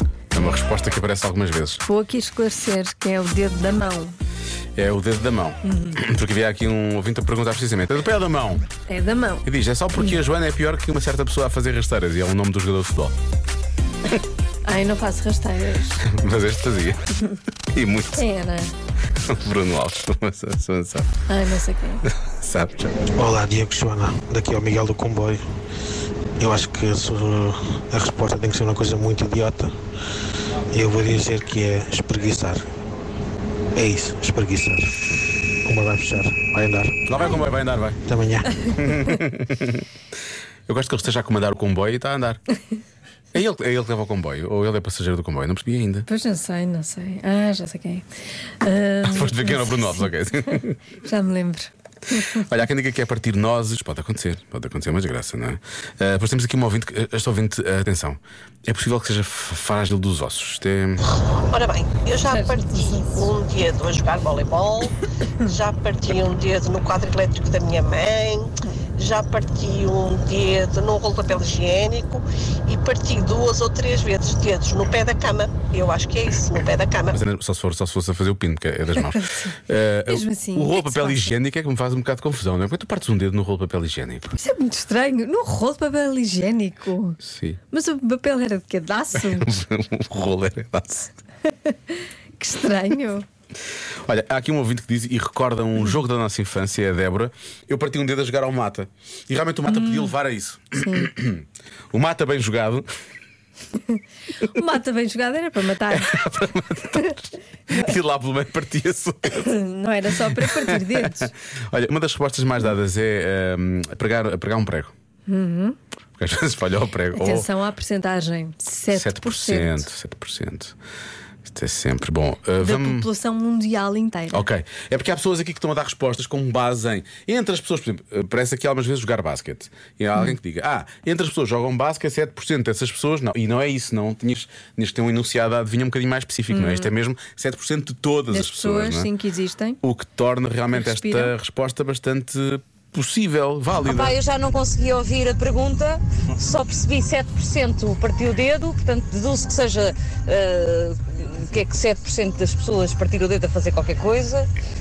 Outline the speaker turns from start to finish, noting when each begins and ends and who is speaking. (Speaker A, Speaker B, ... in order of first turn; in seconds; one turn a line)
Speaker A: 0.3-1.8
Speaker B: 1.9-4.1
Speaker A: 4.8-8.7
Speaker B: 8.9-9.4
Speaker A: 9.4-13.2
Speaker B: 14.7-16.0
Speaker A: 15.9-18.3
Speaker B: 18.2-18.7
Speaker A: 19.1-21.2
Speaker B: 21.3-22.0
Speaker A: 22.0-23.0
Speaker C: 23.1-25.4
Speaker C: 26.4-29.8
Speaker C: 30.7-32.7
Speaker C: 33.8-37.0
Speaker A: 37.0-38.0
Speaker C: 38.1-38.5
Speaker A: 38.6-39.8
Speaker A: 40.7-42.4
Speaker A: 43.3-46.1
Speaker B: 46.1-48.0
Speaker B: 48.6-49.9
Speaker A: 49.0-50.9
Speaker B: 51.0-51.7
Speaker A: 52.1-61.1
Speaker D: 61.5-64.9
Speaker B: 62.2-63.3
Speaker D: 65.5-77.2
Speaker A: 77.1-84.3
Speaker B: 79.0-79.5
Speaker B: 80.1-81.3
Speaker B: 84.4-87.2
Speaker A: 87.2-87.6
Speaker B: 87.7-89.6
Speaker A: 89.2-91.2
Speaker B: 91.9-93.2
Speaker A: 94.1-102.9
Speaker B: 100.8-101.1
Speaker B: 104.6-106.0
Speaker A: 105.8-109.7
Speaker B: 109.4-111.3
Speaker A: 110.2-114.9
Speaker B: 115.3-115.8
Speaker A: 116.2-117.5
Speaker B: 117.1-119.8
Speaker A: 118.9-120.7
Speaker A: 121.4-123.1
Speaker B: 122.6-124.5
Speaker A: 124.3-139.1
Speaker B: 136.5-136.9
Speaker B: 138.3-139.8
Speaker A: 139.8-144.2
Speaker B: 140.8-141.3
Speaker E: 143.8-154.5